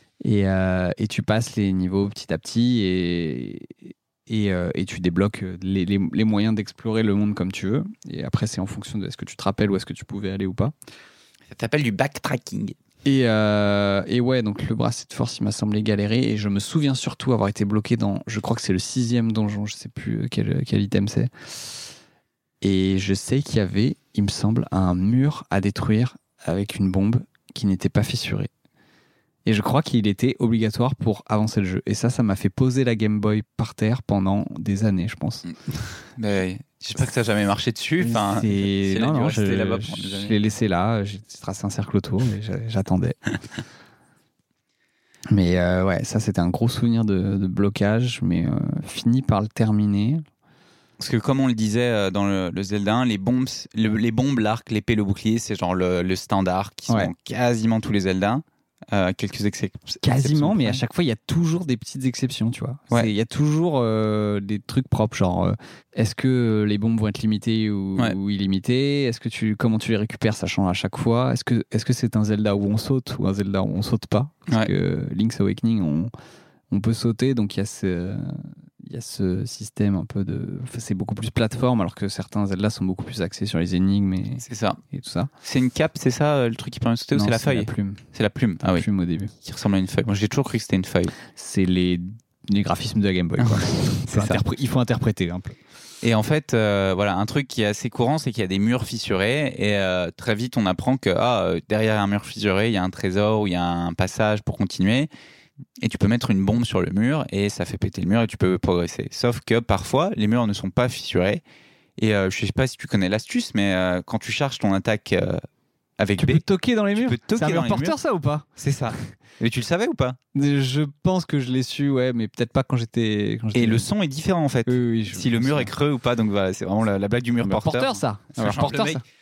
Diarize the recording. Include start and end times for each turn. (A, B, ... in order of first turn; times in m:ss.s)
0:00.2-0:10.7 A
0:11.5-0:12.8 B
0:13.0-0:21.8 A
0:22.6-0:28.5 A
0:29.4-0:35.4 A
0:35.5-0:40.4 B
0:38.0-0:43.2 A
0:45.3-0:50.2 A
0:51.0-1:00.8 B
1:00.0-1:16.1 A
1:16.7-1:25.3 A
1:24.4-1:24.8 B
1:25.4-1:28.8 B
1:27.1-1:28.0 A
1:28.6-1:29.3 A
1:29.4-1:31.1 B
1:31.3-1:35.6 A
1:33.4-1:34.4 B
1:36.0-1:45.1 B
1:45.8-1:51.4 B
1:52.0-1:55.4 B
1:56.0-1:58.0 B
1:56.2-1:58.9 A
1:58.6-2:00.2 B
2:00.3-2:03.9 A
2:03.5-2:09.0 B
2:04.6-2:05.7 A
2:07.4-2:09.0 A